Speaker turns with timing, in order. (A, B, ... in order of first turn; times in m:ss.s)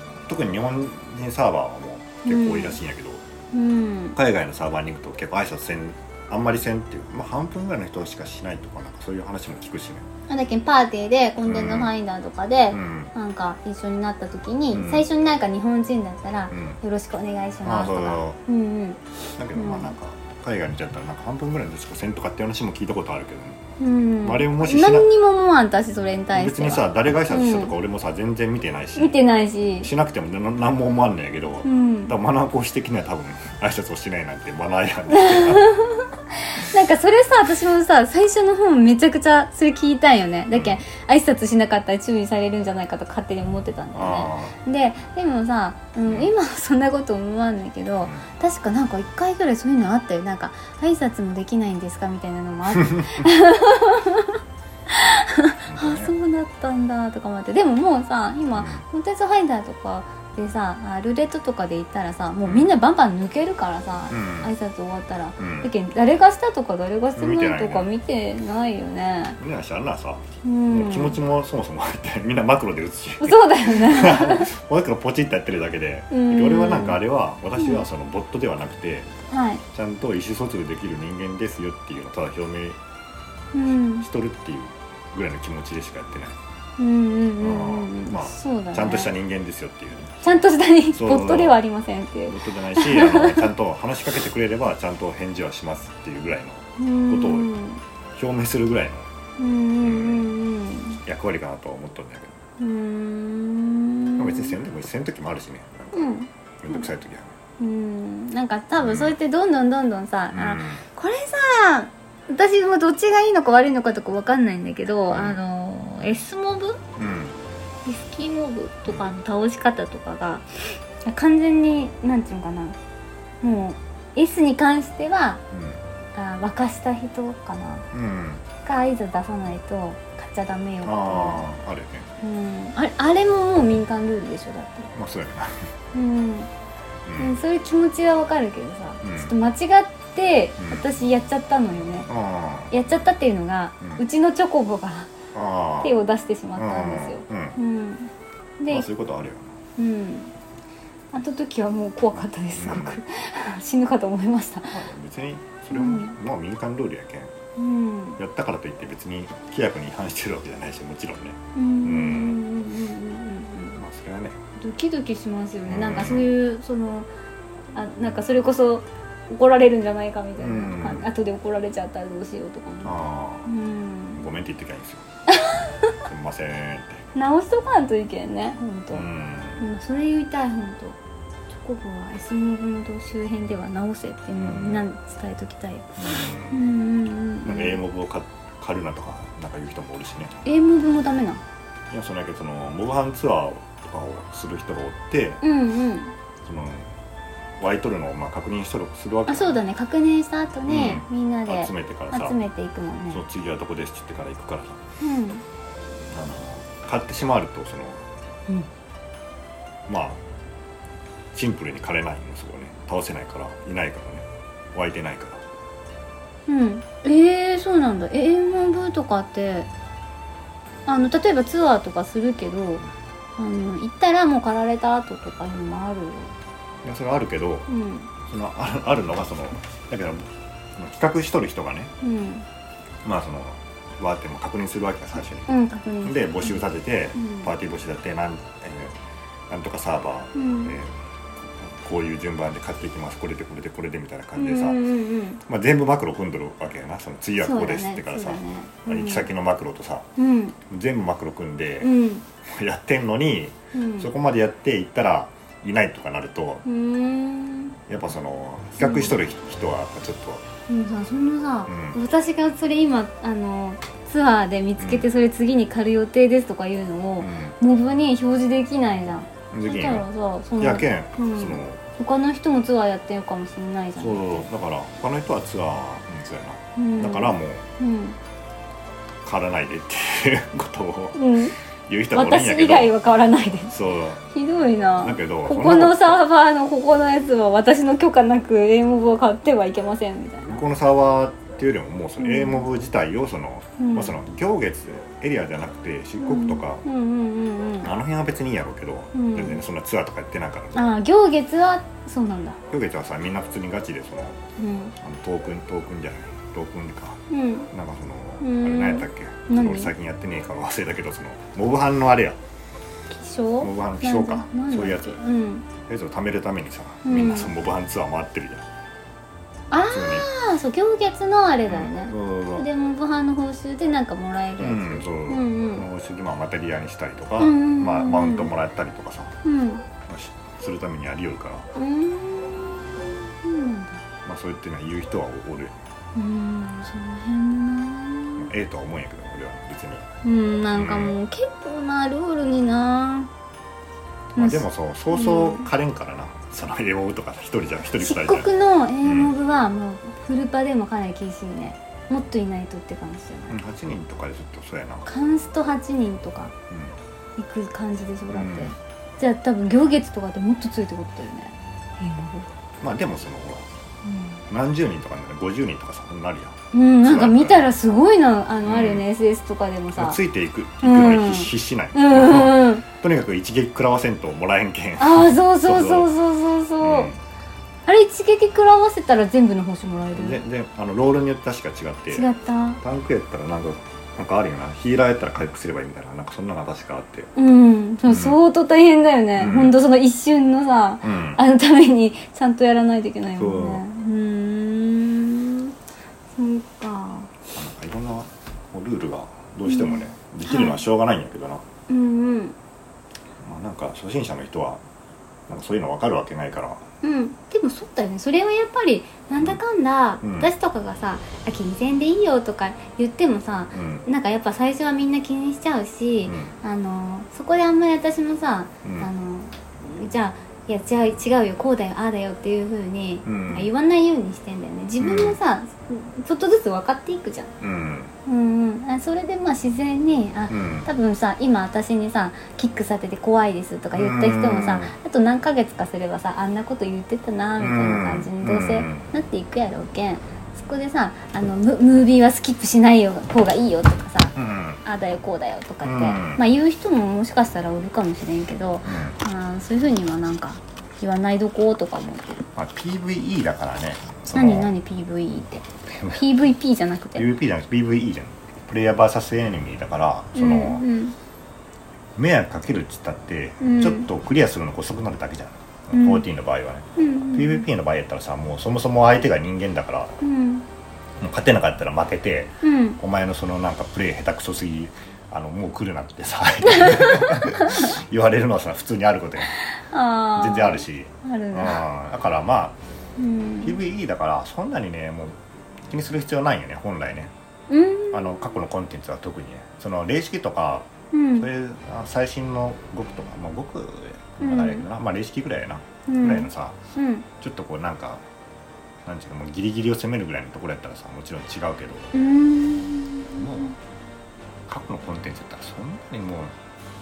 0:00.3-0:03.2 A
0:02.2-0:02.8 B
0:03.5-0:04.2 B
0:04.2-0:10.1 A
0:10.3-0:19.0 B
0:11.4-0:11.9 A
0:12.7-0:13.1 A
0:14.7-0:15.1 A
0:16.5-0:16.8 A
0:17.6-0:18.4 A
0:19.4-0:23.6 A
0:19.6-0:19.9 B
0:23.8-0:27.7 B
0:24.2-0:25.1 A
0:26.3-0:29.2 A
0:29.0-0:29.9 B
0:29.8-0:35.7 A
0:31.6-0:32.1 B
0:35.1-1:09.4 B
0:40.5-0:40.8 A
0:43.9-0:44.6 A
0:52.8-0:53.2 A
0:55.7-0:56.1 A
0:58.6-0:58.8 A
1:02.4-1:02.7 A
1:04.1-1:04.5 A
1:05.4-1:05.7 A
1:07.2-1:07.9 A
1:09.4-1:19.1 A
1:10.4-1:11.2 B
1:13.2-1:14.5 B
1:16.1-1:17.0 B
1:19.3-1:19.6 B
1:19.7-1:22.8 A
1:23.5-1:24.1 B
1:24.0-1:26.4 A
1:26.8-1:29.1 B
1:27.4-1:31.6 A
1:30.2-1:33.5 B
1:32.3-1:37.5 A
1:36.8-1:37.8 B
1:38.1-1:39.1 A
1:39.4-1:41.0 B
1:39.8-1:40.3 A
1:41.0-1:42.4 A
1:42.6-1:44.6 B
1:44.2-1:47.3 A
1:45.9-1:46.9 B
1:47.6-1:56.8 B
1:48.8-1:49.2 A
1:50.3-1:50.8 A
1:55.1-1:55.4 A
1:57.0-1:57.4 A
1:57.8-2:02.8 B
2:03.4-2:05.4 B
2:05.5-2:05.8 A
2:06.2-2:07.9 B
2:07.9-2:08.4 A
2:08.6-2:11.5 B
2:10.8-2:12.1 A
2:12.2-2:14.9 B
2:15.0-2:15.6 A
2:15.9-2:16.5 B
2:17.0-2:17.4 A
2:17.2-2:22.1 B
2:19.0-2:19.3 A
2:20.6-2:20.8 A
2:22.1-2:22.8 A
2:22.7-2:25.1 B
2:25.3-2:25.9 A
2:25.8-2:28.9 B
2:26.6-2:27.6 A
2:28.7-2:29.6 A
2:29.8-2:30.3 B
2:31.1-2:34.8 B
2:32.2-2:33.0 A
2:34.7-2:37.3 A
2:35.7-2:36.2 B
2:37.6-2:38.2 B
2:38.2-2:42.4 A
2:41.6-2:43.8 B
2:43.8-2:44.4 A
2:44.6-2:47.1 B
2:45.7-2:46.3 A
2:47.7-2:53.0 B
2:50.4-2:51.1 A
2:52.8-2:53.5 A
2:53.5-2:54.2 B
2:54.2-2:55.0 A
2:55.3-2:55.9 B
2:56.0-2:57.0 A
2:57.2-2:59.1 B
2:58.9-2:59.6 A
2:59.6-3:01.0 B
3:01.5-3:06.0 B
3:04.4-3:04.9 A
3:06.0-3:06.6 A
3:06.5-3:07.8 B
3:07.4-3:10.4 A
3:10.4-3:11.4 B
3:11.9-3:15.4 A
3:15.4-3:16.1 B
3:16.4-3:16.9 A
3:17.6-3:19.6 A
3:19.3-3:23.2 B
3:20.7-3:22.4 A
3:23.1-3:24.8 A
3:25.0-3:25.4 B
3:26.1-3:28.0 A
3:29.9-3:30.2 A
3:31.3-3:35.4 A
3:36.5-3:39.7 B
3:40.9-3:42.8 B
3:43.4-3:46.3 B
3:46.8-3:47.7 A
3:47.7-3:48.1 B
3:48.2-3:50.2 A
3:50.8-3:51.9 A
3:52.0-3:52.5 B
3:53.0-3:55.5 A
3:55.5-3:56.6 B
3:56.0-3:59.0 A
3:57.2-3:57.5 B
3:59.5-4:04.8 A
4:00.3-4:00.8 B
4:04.4-4:05.4 B
4:05.4-4:10.1 A
4:07.4-4:09.3 B
4:10.2-4:10.6 B
4:10.7-4:16.6 A
4:11.8-4:12.2 B
4:13.7-4:14.1 B
4:16.6-4:17.8 B
4:17.9-4:20.4 A
4:18.8-4:19.2 B
4:20.7-4:34.5 B
4:21.7-4:22.0 A
4:24.8-4:25.1 A
4:27.2-4:27.6 A
4:29.5-4:30.1 A
4:30.6-4:31.8 A
4:34.0-4:37.6 A
4:36.8-4:38.2 B
4:39.2-4:41.2 A
4:41.2-4:41.6 B
4:41.9-4:43.0 A
4:42.1-4:43.8 B
4:43.7-4:44.2 A
4:44.3-4:50.6 B
4:45.0-4:46.2 A
4:50.5-4:56.8 A
4:52.2-4:52.7 B
4:53.8-4:54.1 B
4:56.2-4:57.9 B
4:57.8-5:01.0 A
4:59.1-4:59.6 B
5:00.7-5:02.6 B
5:02.7-5:04.4 A
5:04.6-5:04.9 B
5:05.0-5:12.4 A
5:07.3-5:07.7 B
5:08.4-5:09.9 B
5:13.1-5:15.7 B
5:13.6-5:15.2 A
5:15.8-5:18.7 A
5:17.0-5:17.5 B
5:19.7-5:25.8 B
5:19.9-5:20.3 A
5:21.7-5:22.7 A
5:24.6-5:29.4 A
5:27.4-5:28.5 B
5:29.4-5:29.8 B
5:30.1-5:31.7 A
5:31.8-5:34.0 B
5:34.2-5:35.8 A
5:36.2-5:38.5 B
5:38.4-5:40.1 A
5:40.2-5:43.3 B
5:40.7-5:41.2 A
5:44.4-5:45.7 B
5:44.4-5:48.5 A
5:48.0-5:53.6 B
5:49.0-5:49.3 A
5:53.5-5:55.1 A
5:55.1-5:56.5 B
5:56.7-5:57.0 A
5:57.4-6:02.5 B
5:58.3-5:58.7 A
6:02.8-6:03.7 A
6:04.0-6:04.4 B
6:04.5-6:07.7 A
6:06.7-6:10.2 B
6:08.6-6:09.0 A
6:10.0-6:16.1 A
6:10.8-6:12.8 B
6:15.0-6:17.1 B
6:16.8-6:17.2 A
6:17.9-6:20.4 B
6:20.2-6:22.3 A
6:22.1-6:22.8 B
6:22.8-6:27.3 A
6:27.4-6:35.7 B
6:28.1-6:28.4 A
6:29.4-6:29.7 A
6:31.0-6:31.4 A
6:33.4-6:33.8 A
6:36.4-6:37.3 B
6:37.5-6:41.6 A
6:39.6-6:40.8 B
6:41.9-6:42.6 B
6:43.4-6:44.8 A
6:45.5-6:46.8 A
6:47.0-7:07.5 B
6:50.2-6:50.5 A
6:53.7-6:54.0 A
6:56.3-6:56.5 A
6:58.8-6:59.1 A
7:03.2-7:03.7 A
7:05.0-7:05.4 A
7:07.6-7:08.1 A
7:08.3-7:32.4 B
7:10.5-7:10.9 A
7:13.9-7:14.9 A
7:17.6-7:19.1 A
7:24.4-7:24.8 A
7:25.8-7:26.4 A
7:28.8-7:29.2 A
7:32.6-7:34.7 A
7:34.3-7:37.3 B
7:35.9-7:36.2 A
7:37.2-7:40.8 A
7:40.4-7:41.2 B
7:42.2-7:50.2 A
7:43.6-7:44.1 B
7:45.9-7:46.3 B
7:47.0-7:47.7 B
7:50.2-7:50.7 B
7:51.2-7:59.5 A
7:52.6-7:53.0 B
7:56.7-7:57.9 B
7:59.6-8:01.8 B
8:00.4-8:02.8 A
8:03.2-8:03.8 B
8:03.6-8:07.3 A
8:07.7-8:08.5 B
8:08.1-8:16.8 A
8:11.1-8:11.5 B
8:14.4-8:14.9 B
8:16.1-8:17.3 B
8:17.4-8:18.2 A
8:19.0-8:22.1 A
8:22.1-8:23.7 B
8:23.4-8:23.8 A
8:24.7-8:26.5 A